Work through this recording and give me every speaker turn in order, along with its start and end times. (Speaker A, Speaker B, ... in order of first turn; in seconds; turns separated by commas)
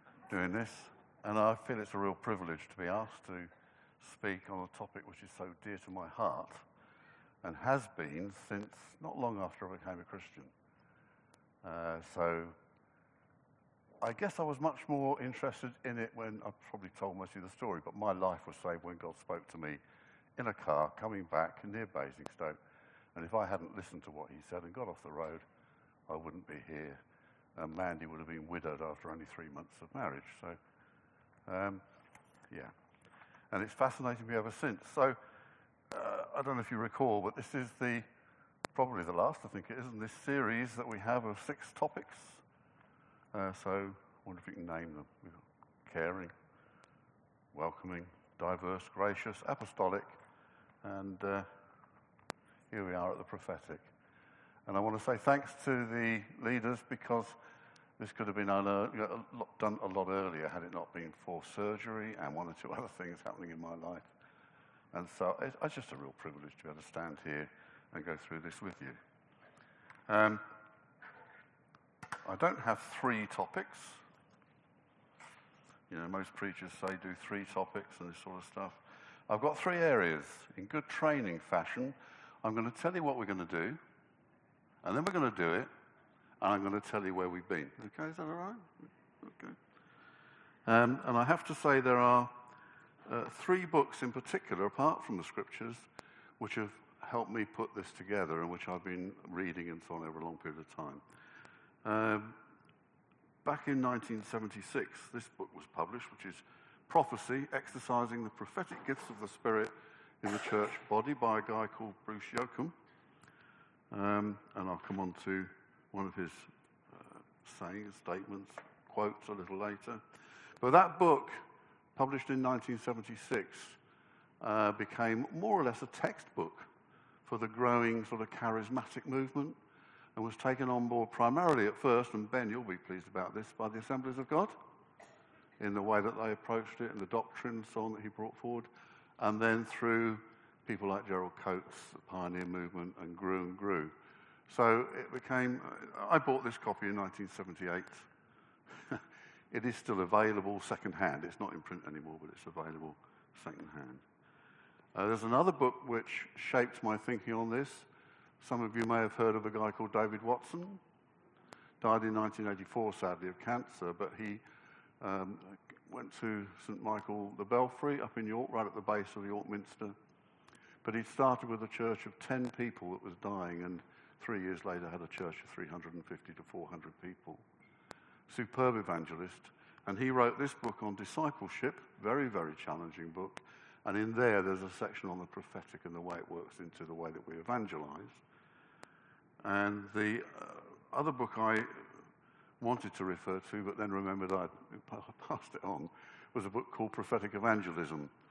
Speaker A: 0.3-6.7, Speaker A: 7.4-10.5, Speaker A: 11.6-12.6, Speaker A: 14.0-19.8, Speaker A: 20.4-22.6, Speaker A: 23.1-25.4, Speaker A: 26.1-27.0, Speaker A: 27.6-30.6, Speaker A: 31.5-31.8, Speaker A: 33.5-35.2, Speaker A: 35.9-38.0, Speaker A: 38.7-42.4, Speaker A: 43.3-46.3, Speaker A: 47.5-50.2, Speaker A: 50.8-51.5, Speaker A: 52.7-53.9, Speaker A: 54.7-57.4, Speaker A: 58.0-64.1, Speaker A: 64.9-69.0, Speaker A: 70.1-70.4, Speaker A: 72.2-74.0, Speaker A: 75.9-83.8, Speaker A: 84.8-85.7, Speaker A: 86.4-89.6, Speaker A: 90.7-92.3, Speaker A: 93.1-95.9, Speaker A: 96.4-101.0, Speaker A: 101.8-102.4, Speaker A: 103.4-112.7, Speaker A: 113.9-120.0, Speaker A: 120.6-121.4, Speaker A: 122.0-123.8, Speaker A: 124.4-126.7, Speaker A: 127.2-129.6, Speaker A: 130.2-134.6, Speaker A: 135.6-143.9, Speaker A: 144.5-148.1, Speaker A: 148.9-154.0, Speaker A: 154.9-157.9, Speaker A: 158.4-160.8, Speaker A: 161.8-164.4, Speaker A: 165.0-169.9, Speaker A: 170.8-177.4, Speaker A: 178.3-188.2, Speaker A: 189.4-192.0, Speaker A: 192.6-198.1